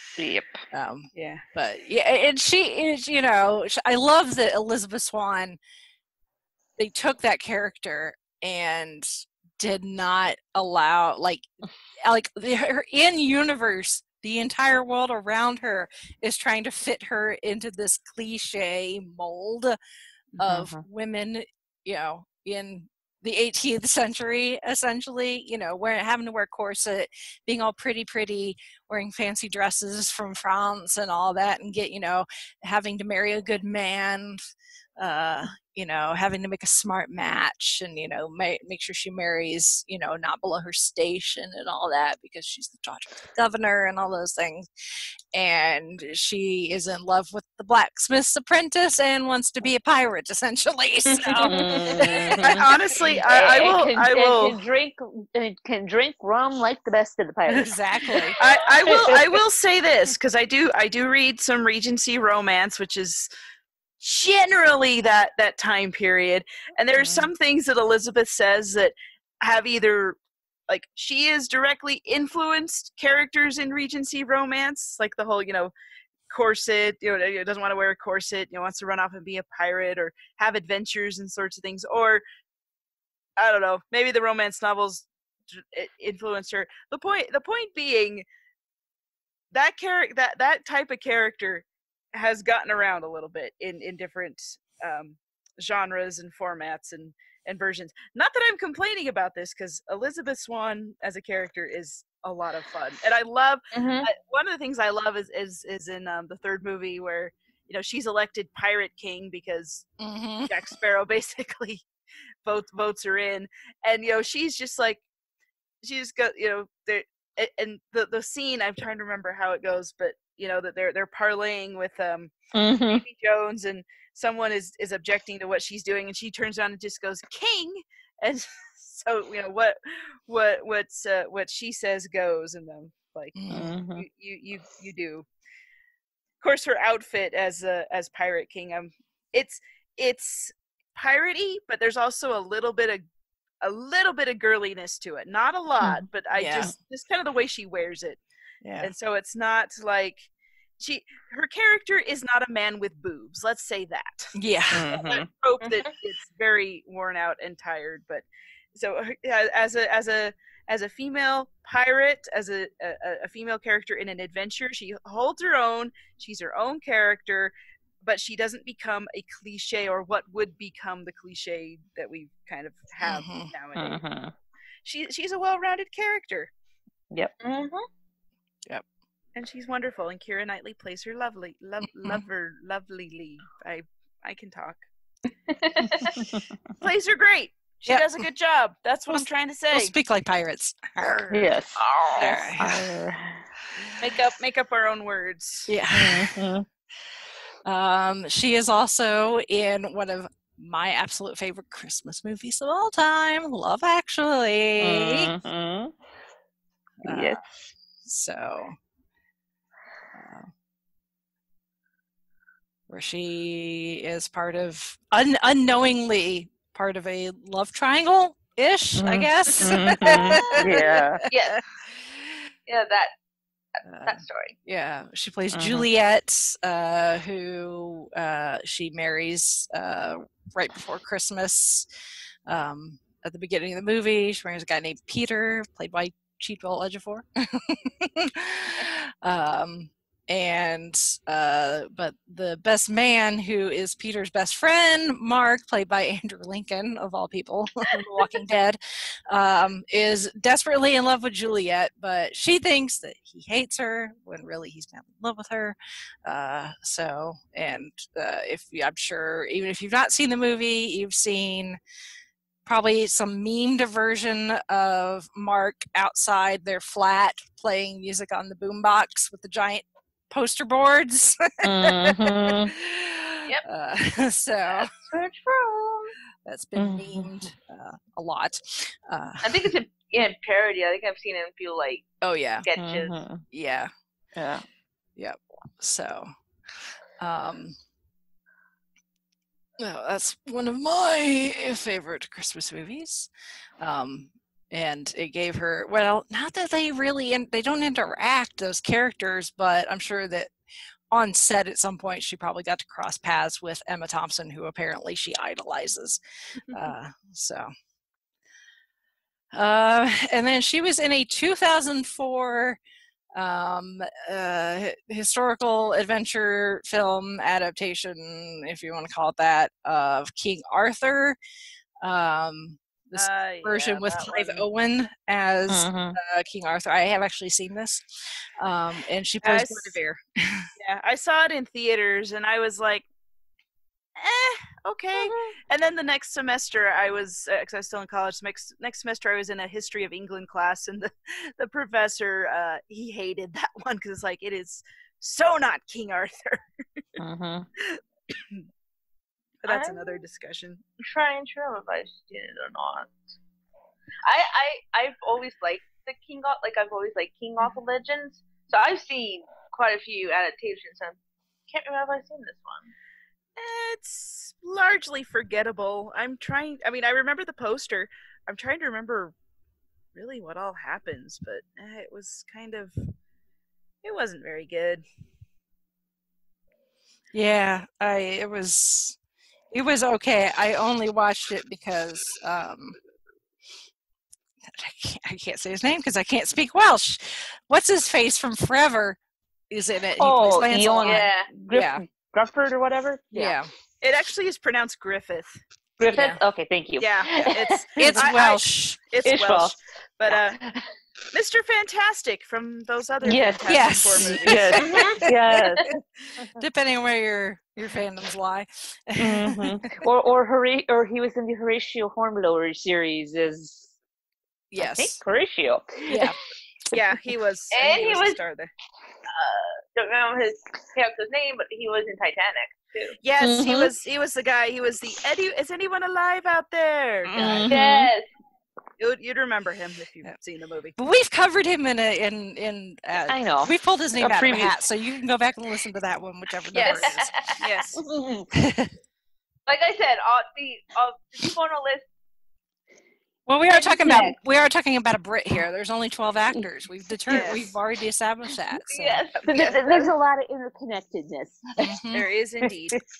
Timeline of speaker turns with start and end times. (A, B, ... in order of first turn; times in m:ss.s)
0:00.2-0:00.6 A
0:00.7-0:05.6 B
0:01.1-0:01.4 C
0:06.8-0:11.5 B
0:12.0-0:19.8 B
0:20.4-0:34.4 B
0:20.4-0:20.8 A
0:35.0-0:44.6 B
0:45.3-0:53.0 B
0:51.1-0:52.0 D
0:51.5-0:52.7 A
0:52.4-0:54.6 C
0:53.2-0:57.7 A
0:57.5-0:58.4 B
0:58.4-1:03.3 C
0:58.8-0:59.2 A
1:04.0-1:15.7 C
1:16.3-1:22.2 C
1:23.4-1:28.2 C
1:29.5-1:49.9 C
1:43.7-1:44.1 D
1:50.0-1:50.6 B
1:50.5-1:51.8 C
1:52.4-1:55.0 C
1:55.8-2:02.3 C
2:02.5-2:03.0 A
2:02.9-2:13.4 C
2:13.3-2:13.7 B
2:13.5-2:14.0 A
2:13.9-2:15.2 C
2:16.4-2:23.0 C
2:23.6-2:28.2 C
2:26.3-2:26.7 B
2:28.6-2:28.9 B
2:28.8-2:34.4 C
2:34.3-2:34.9 B
2:34.7-2:35.3 A
2:34.9-2:54.0 C
2:35.6-2:35.9 D
2:53.0-2:53.5 B
2:53.8-2:54.3 A
2:54.8-2:56.5 C
2:57.4-2:57.8 D
2:59.3-3:04.8 C
3:05.5-3:06.2 D
3:06.8-3:09.9 C
3:09.1-3:11.4 B
3:11.3-3:13.4 A
3:11.8-3:12.5 D
3:12.2-3:12.9 B
3:14.0-3:15.7 C
3:15.7-3:16.4 B
3:15.9-3:16.6 A
3:17.6-3:25.3 B
3:24.8-3:25.9 A
3:27.0-3:27.4 A
3:27.0-3:27.4 B
3:28.0-3:28.8 B
3:30.1-3:30.5 B
3:32.9-3:41.6 B
3:39.0-3:41.2 A
3:40.1-3:40.6 D
3:41.3-3:41.6 D
3:42.7-3:43.1 D
3:43.8-3:44.5 D
3:43.8-3:51.9 B
3:45.5-3:45.9 A
3:52.5-4:21.8 B
4:22.6-4:34.9 B
4:31.6-4:32.7 A
4:34.7-4:36.1 D
4:36.4-4:39.7 B
4:36.8-4:37.3 A
4:39.4-4:42.1 D
4:42.2-4:42.7 B
4:42.6-4:43.1 D
4:42.8-4:43.4 A
4:43.5-4:43.9 B
4:44.3-4:44.6 A
4:45.2-4:46.3 B
4:47.2-4:47.8 B
4:49.8-5:00.5 B
5:01.1-5:07.7 B
5:09.5-5:12.8 B
5:13.3-5:21.4 B
5:22.0-5:30.7 B
5:23.1-5:24.6 C
5:25.7-5:26.2 A
5:29.4-5:29.9 C
5:30.8-5:33.0 C
5:34.2-5:46.6 C
5:47.2-5:47.7 A
5:47.8-5:48.6 C
5:49.6-5:50.8 C
5:49.7-5:50.2 D
5:51.0-5:53.1 D
5:54.2-6:01.2 D
6:01.7-6:02.9 D
6:03.6-6:09.3 C
6:10.1-6:13.1 C
6:14.0-6:15.0 C
6:17.3-6:19.2 B
6:19.7-6:23.0 B
6:24.7-6:29.2 B
6:29.7-6:32.0 B
6:30.2-6:33.6 A
6:31.0-6:31.5 D
6:33.3-6:33.7 B
6:34.0-6:35.6 C
6:36.0-6:38.2 A
6:36.1-6:36.4 B
6:37.0-6:40.6 C
6:38.0-6:39.0 B
6:39.2-6:39.7 A
6:40.3-6:40.9 A
6:41.3-6:44.9 C
6:43.2-6:45.9 A
6:43.7-6:45.6 B
6:46.4-6:50.0 B
6:49.2-6:53.9 A
6:54.7-6:55.2 B
6:54.8-6:56.3 A
6:56.1-6:56.4 B
6:56.9-6:58.7 C
6:57.7-6:58.4 D
6:59.3-7:03.2 D
7:03.2-7:07.4 C
7:03.4-7:03.9 A
7:07.3-7:08.1 A
7:07.4-7:07.8 B
7:07.7-7:08.3 D
7:09.0-7:11.0 C
7:11.0-7:17.5 B
7:13.3-7:14.8 A
7:16.7-7:17.6 D
7:17.6-7:18.0 C
7:18.0-7:18.5 A
7:18.5-7:18.9 B
7:19.7-7:22.1 D
7:23.5-7:29.3 B
7:23.7-7:24.3 D
7:27.3-7:27.7 C
7:28.9-7:30.1 D
7:29.5-7:31.9 A
7:31.8-7:32.2 B
7:32.1-7:33.0 C